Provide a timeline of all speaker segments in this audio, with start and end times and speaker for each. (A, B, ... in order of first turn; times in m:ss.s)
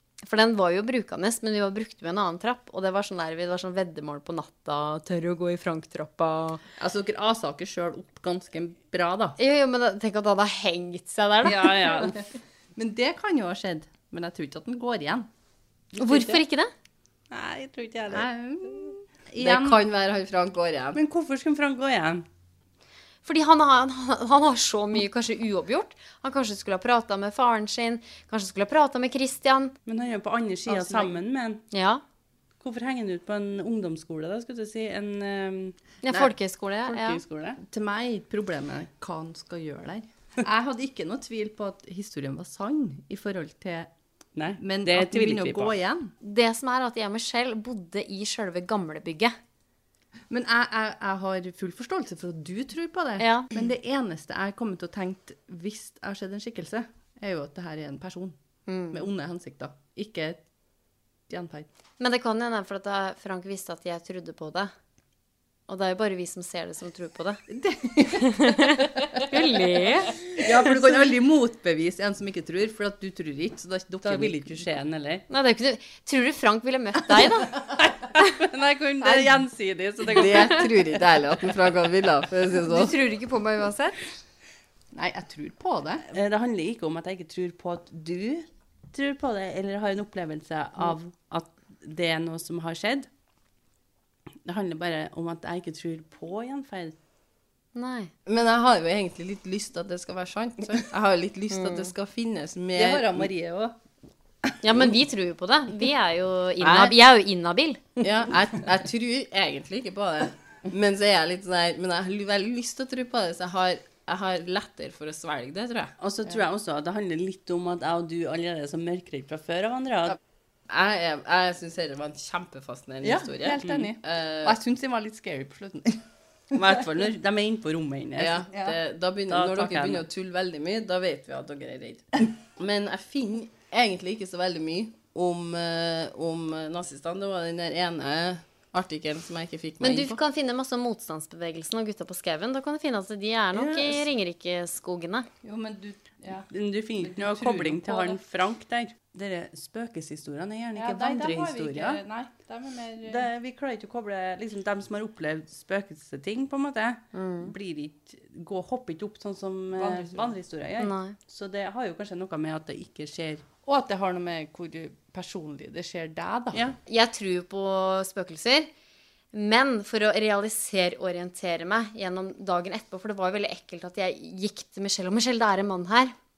0:00.2-0:06.6 A
0:06.8-0:09.4 B
0:09.4-0:12.1 A
0:11.4-0:12.2 C
0:12.8-0:15.3 B
0:15.9-0:16.4 C
0:16.0-0:16.7 A
0:17.3-0:18.3 C
0:18.1-0:21.0 D
0:19.3-0:19.8 C
0:20.9-0:22.2 C
0:23.2-0:29.7 A
0:29.8-0:31.6 C
0:31.7-0:32.0 A
0:32.6-0:35.8 C
0:36.0-0:37.2 A
0:36.9-0:37.6 C
0:37.6-0:43.9 B
0:44.4-0:45.7 C
0:44.6-0:46.1 B
0:46.2-0:49.3 A
0:50.3-0:53.3 B
0:51.8-0:52.2 C
0:53.2-0:53.5 A
0:53.5-0:56.8 C
0:54.0-0:54.8 B
0:57.2-0:58.2 B
0:58.6-0:59.0 A
0:58.9-1:00.4 B
1:01.3-1:01.6 C
1:02.0-1:04.7 A
1:05.7-1:07.4 A
1:07.6-1:08.2 B
1:08.2-1:10.3 A
1:10.4-1:11.7 C
1:10.4-1:10.7 B
1:11.8-1:14.3 B
1:13.3-1:15.2 C
1:15.3-1:17.6 A
1:18.3-1:20.7 C
1:19.0-1:19.3 A
1:20.1-1:22.9 D
1:22.6-1:24.1 A
1:24.9-1:26.0 B
1:26.1-1:33.1 C
1:34.4-1:36.9 C
1:37.7-1:38.1 A
1:38.2-1:43.3 D
1:41.5-1:41.9 A
1:42.8-1:43.5 B
1:43.2-1:43.7 C
1:44.6-1:47.8 A
1:46.6-1:46.9 D
1:48.0-1:55.9 D
1:56.0-2:00.2 C
2:00.7-2:04.6 D
2:03.0-2:06.0 B
2:03.6-2:03.9 C
2:06.5-2:06.8 B
2:06.5-2:08.4 C
2:08.2-2:20.2 D
2:08.5-2:08.8 B
2:09.3-2:10.0 C
2:19.8-2:25.3 A
2:23.5-2:24.0 B
2:25.4-2:28.2 B
2:26.5-2:32.0 C
2:30.7-2:33.2 B
2:33.0-2:43.5 C
2:37.1-2:37.5 A
2:39.8-2:40.4 B
2:40.8-2:41.2 A
2:43.6-2:46.6 B
2:46.8-2:48.7 A
2:49.3-2:56.1 A